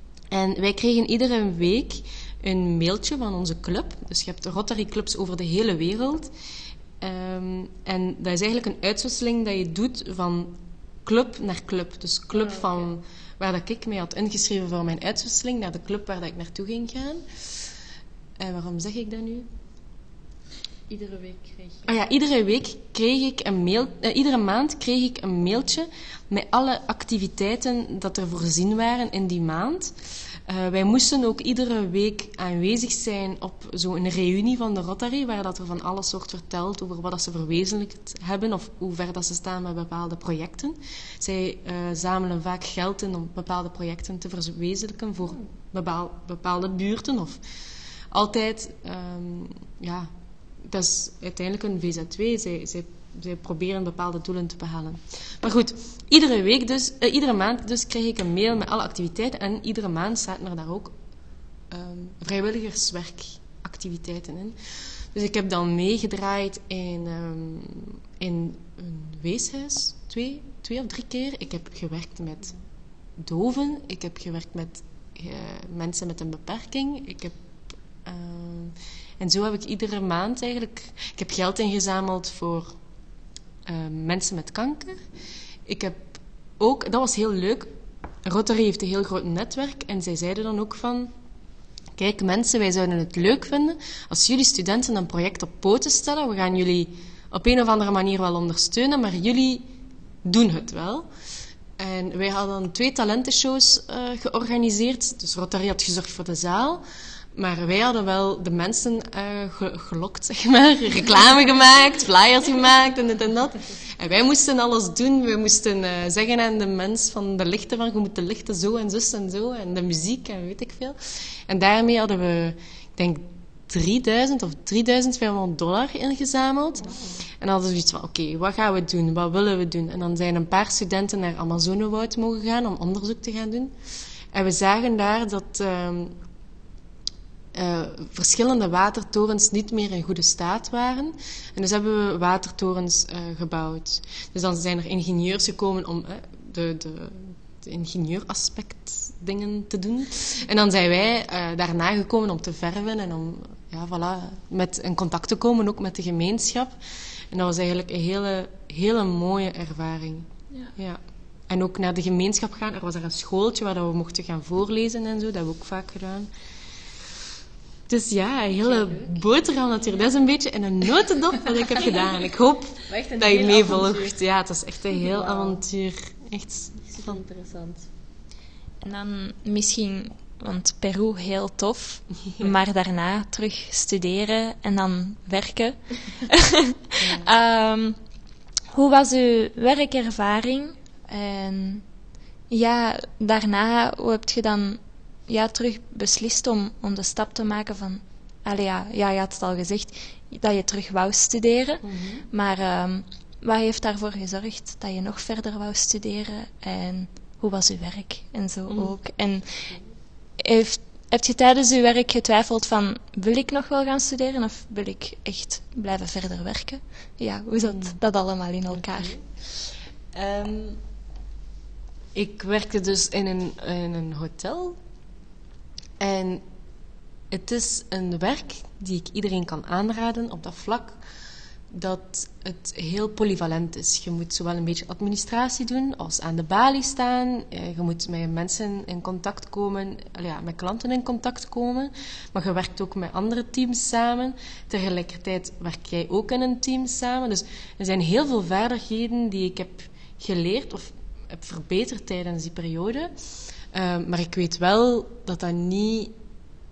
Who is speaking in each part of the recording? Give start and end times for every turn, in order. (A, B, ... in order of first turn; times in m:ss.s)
0:00.3-0:06.3 A
0:07.0-0:17.5 A
0:12.3-0:12.8 B
0:18.4-0:19.5 A
0:20.9-0:21.8 B
0:21.9-0:29.9 A
0:30.5-0:47.4 A
0:48.1-0:50.1 A
0:50.6-1:00.9 A
1:01.7-1:04.6 A
1:05.1-1:12.5 A
1:13.2-1:17.4 A
1:18.0-1:22.7 A
1:23.6-1:25.0 A
1:25.6-1:27.7 A
1:28.2-1:31.1 A
1:31.9-1:39.6 A
1:40.2-1:41.1 A
1:41.8-1:46.8 A
1:47.4-2:13.7 A
2:06.8-2:07.2 B
2:14.3-2:16.1 A
2:17.5-2:36.8 A
2:37.3-2:46.3 A
2:47.9-2:57.2 A
2:48.6-2:49.2 B
2:52.9-2:54.2 B
2:55.0-2:55.6 B
2:56.8-2:57.9 B
2:58.8-3:08.0 C
3:07.0-3:07.3 A
3:08.7-3:11.8 C
3:12.5-3:29.8 C
3:21.8-3:22.2 A
3:30.4-3:39.1 C
3:37.6-3:37.9 A
3:40.1-3:40.8 A
3:42.1-3:44.8 A
3:46.0-3:46.4 A
3:47.3-3:51.0 A
3:51.7-4:13.1 A
4:13.7-4:16.1 A